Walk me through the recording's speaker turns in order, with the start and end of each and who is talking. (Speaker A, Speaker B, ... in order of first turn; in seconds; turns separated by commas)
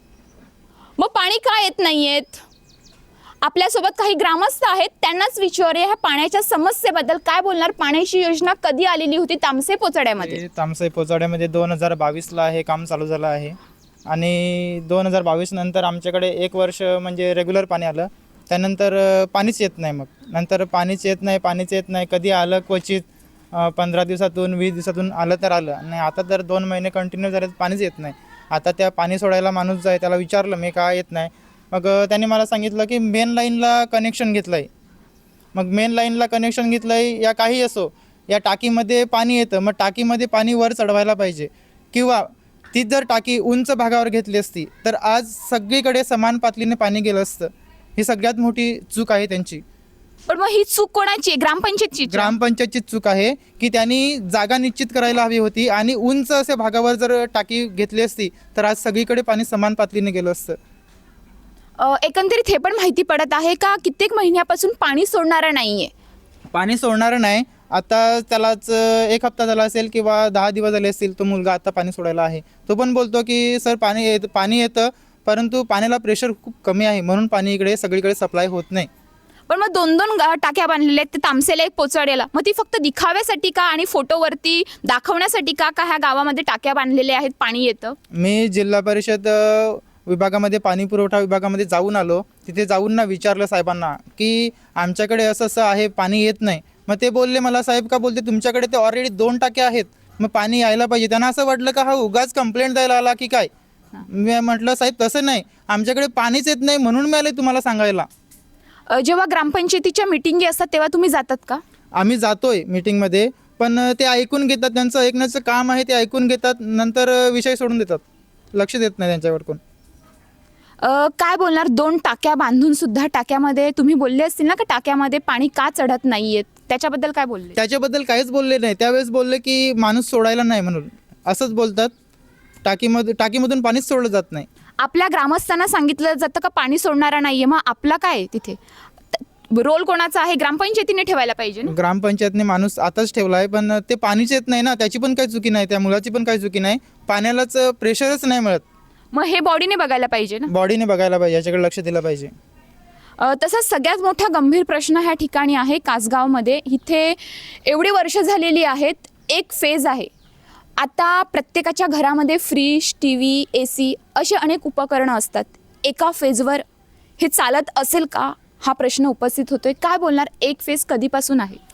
Speaker A: 1.0-2.4, Speaker A: 3.4-10.4, Speaker B: 10.4-13.6, Speaker B: 14.1-34.7, Speaker B: 35.5-49.6, Speaker A: 50.3-52.3, Speaker B: 52.1-60.6, Speaker A: 61.8-65.9, Speaker B: 66.5-78.9, Speaker A: 79.5-88.0, Speaker B: 88.1-103.5, Speaker B: 104.1-108.1, Speaker A: 108.9-111.6, Speaker B: 111.9-119.6, Speaker A: 120.8-127.6, Speaker B: 127.6-131.9, Speaker B: 132.6-134.5, Speaker A: 134.8-138.6, Speaker A: 139.1-141.7, Speaker B: 141.7-148.6, Speaker A: 149.1-150.5, Speaker B: 150.5-152.3, Speaker A: 153.2-160.1, Speaker A: 160.8-166.6, Speaker A: 167.2-171.6